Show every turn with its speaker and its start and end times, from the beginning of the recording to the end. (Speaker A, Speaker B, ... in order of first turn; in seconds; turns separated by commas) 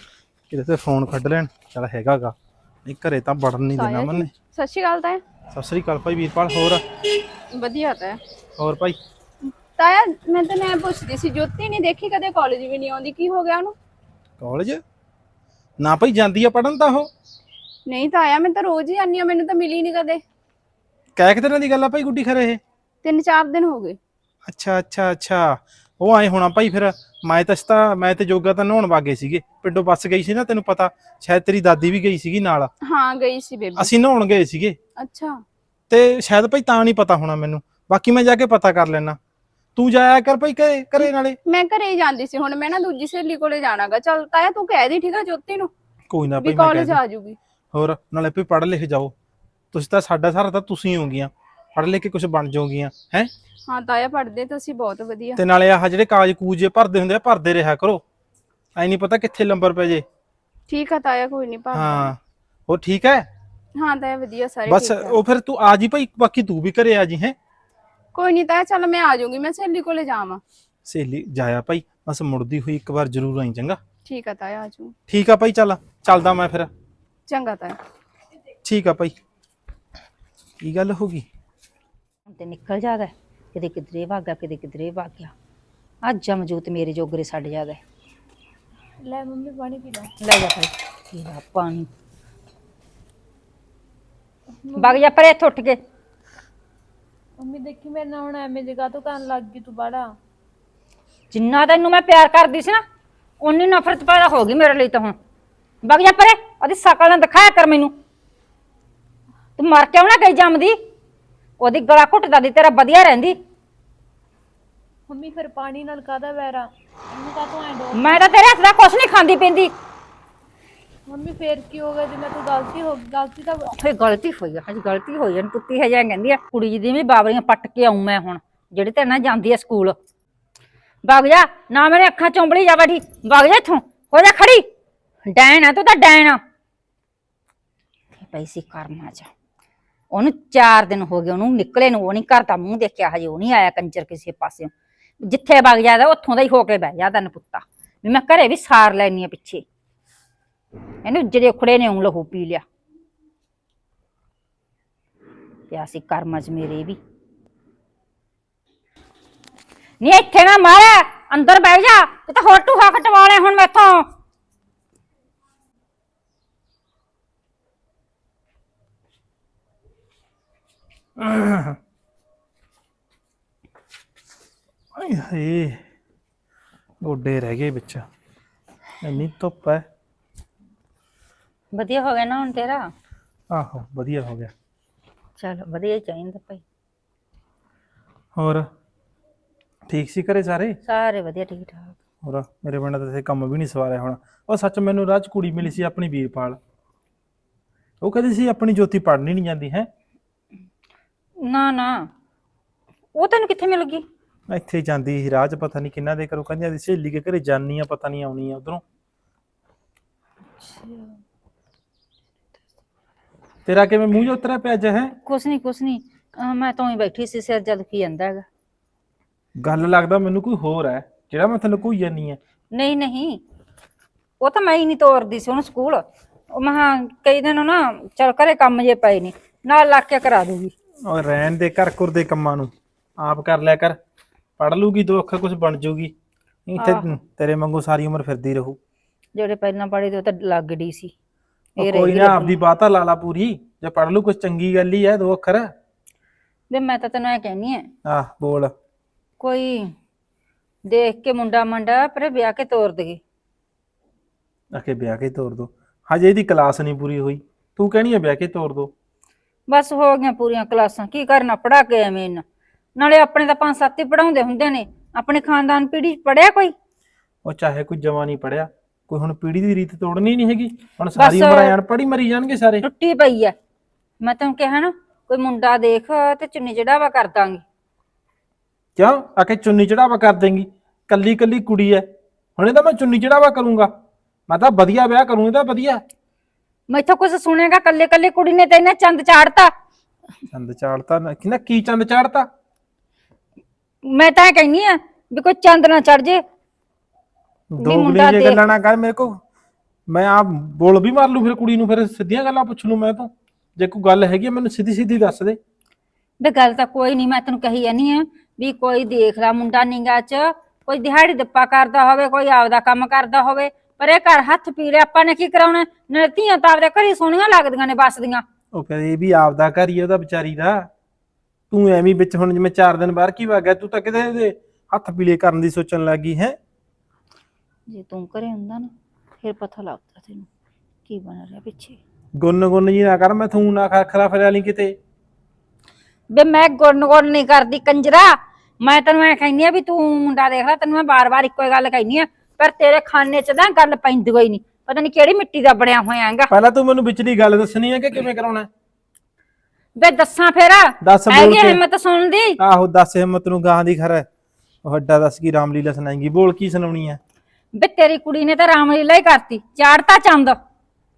Speaker A: 0.5-4.3, Speaker B: 3.8-5.2, Speaker A: 5.5-6.8, Speaker B: 7.5-8.2, Speaker A: 8.6-9.0, Speaker B: 9.8-13.7, Speaker A: 14.4-14.8, Speaker A: 15.8-17.1, Speaker B: 17.9-20.2, Speaker A: 21.2-22.6, Speaker B: 23.0-24.0, Speaker A: 24.4-32.7, Speaker B: 32.8-33.9, Speaker A: 33.8-34.8, Speaker B: 35.0-35.4, Speaker A: 35.9-39.2, Speaker A: 39.8-41.4, Speaker B: 41.0-45.7, Speaker A: 46.1-47.0, Speaker B: 46.4-47.4, Speaker A: 47.7-49.1, Speaker A: 49.7-53.3, Speaker B: 53.7-55.4, Speaker A: 55.4-58.0, Speaker A: 58.8-60.0, Speaker B: 60.7-62.1, Speaker A: 61.7-63.3, Speaker B: 63.8-65.2, Speaker A: 64.7-67.3, Speaker B: 68.1-70.4, Speaker A: 70.8-73.8, Speaker B: 74.0-74.9, Speaker A: 75.1-76.7, Speaker B: 77.3-77.8, Speaker A: 78.6-79.2, Speaker A: 80.6-81.2, Speaker C: 82.3-85.3, Speaker C: 86.0-87.8, Speaker D: 89.0-90.1, Speaker C: 90.2-91.9, Speaker D: 94.6-95.0, Speaker C: 94.8-95.8, Speaker D: 97.4-100.1, Speaker C: 101.3-102.8, Speaker C: 103.4-105.2, Speaker C: 105.8-107.9, Speaker C: 109.6-110.8, Speaker C: 111.6-113.4, Speaker D: 115.1-118.3, Speaker C: 117.9-119.7, Speaker D: 121.1-123.7, Speaker C: 123.8-130.0, Speaker C: 131.0-134.7, Speaker C: 135.2-136.4, Speaker C: 138.2-139.3, Speaker C: 140.1-149.7, Speaker C: 151.0-152.6, Speaker C: 155.7-157.0, Speaker C: 160.0-164.1, Speaker A: 171.2-171.8, Speaker A: 174.9-175.8, Speaker A: 177.0-178.1, Speaker A: 179.0-179.9, Speaker C: 181.7-182.9, Speaker A: 183.5-184.5, Speaker C: 185.4-186.6, Speaker A: 188.3-188.7, Speaker A: 189.9-190.8, Speaker C: 190.8-192.0, Speaker A: 192.2-196.6, Speaker A: 198.0-199.9, Speaker C: 201.4-202.1, Speaker C: 203.2-204.1, Speaker A: 204.5-208.8, Speaker D: 210.6-211.2, Speaker A: 213.7-215.1, Speaker C: 215.2-218.5, Speaker A: 219.6-222.4, Speaker C: 222.7-223.4, Speaker C: 224.4-230.7, Speaker A: 231.1-234.0, Speaker A: 234.6-236.1, Speaker A: 236.7-238.8, Speaker C: 236.8-237.1, Speaker C: 239.4-241.1, Speaker C: 241.8-242.6, Speaker A: 241.8-245.7, Speaker C: 246.7-247.9, Speaker A: 248.1-248.7, Speaker C: 249.4-249.9, Speaker C: 250.9-253.2, Speaker A: 254.7-258.9, Speaker C: 259.7-262.4, Speaker C: 262.9-266.7, Speaker A: 267.4-272.9, Speaker C: 271.2-271.7, Speaker C: 272.8-273.6, Speaker C: 274.2-277.6, Speaker A: 278.9-283.9, Speaker A: 284.5-286.0, Speaker C: 286.9-289.7, Speaker A: 290.5-292.5, Speaker C: 294.1-296.4, Speaker A: 297.8-299.4, Speaker C: 297.8-298.6, Speaker A: 300.1-305.6, Speaker C: 306.4-318.4, Speaker A: 318.7-320.9, Speaker A: 321.7-326.6, Speaker C: 327.9-330.5, Speaker C: 331.1-332.0, Speaker A: 332.4-334.9, Speaker C: 336.3-346.5, Speaker A: 346.5-348.7, Speaker C: 349.9-352.6, Speaker A: 351.0-351.8, Speaker A: 352.6-354.3, Speaker A: 354.8-357.2, Speaker C: 357.8-360.6